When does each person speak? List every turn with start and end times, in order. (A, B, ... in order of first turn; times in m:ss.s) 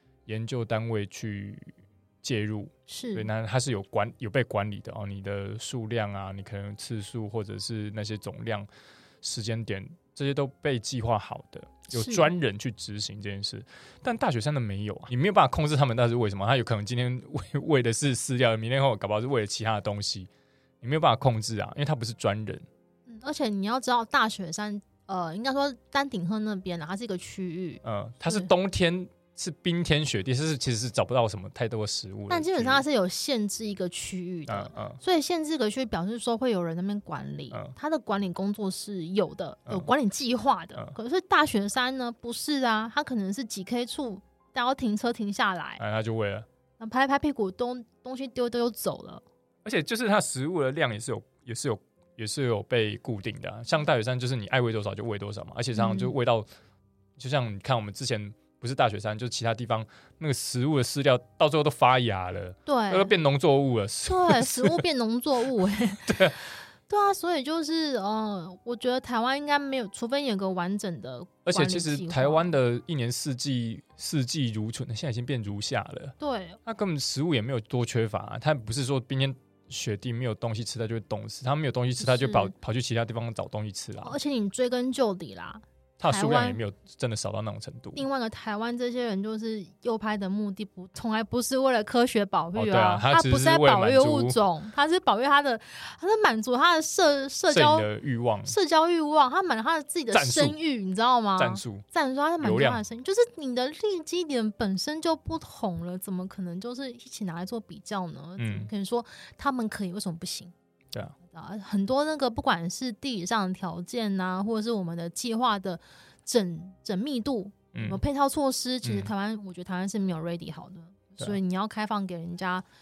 0:00.3-0:08.7 A
0:02.9-0:03.3 B
0:09.2-0:20.3 A
0:11.9-0:12.3 B
0:20.8-0:22.7 A
0:23.1-0:28.5 B
0:27.8-0:32.8 A
0:32.3-0:45.8 B
0:34.5-0:35.0 A
0:45.8-0:46.5 A
0:46.8-0:49.2 B
0:49.6-0:56.5 A
0:55.7-0:56.1 B
0:57.2-1:04.8 A
1:02.7-1:03.1 B
1:04.1-1:06.3 B
1:06.1-1:06.4 A
1:06.9-1:12.5 B
1:11.5-1:24.2 A
1:16.2-1:16.6 B
1:22.0-1:22.5 B
1:24.0-1:26.6 B
1:26.0-1:28.0 A
1:28.0-1:37.9 B
1:32.6-1:34.4 A
1:37.5-1:38.5 A
1:38.4-1:50.5 B
1:40.1-1:40.6 A
1:41.4-1:41.8 A
1:42.4-1:42.8 A
1:48.4-1:48.7 A
1:51.3-2:02.6 B
1:57.7-1:58.0 A
1:58.8-1:59.1 A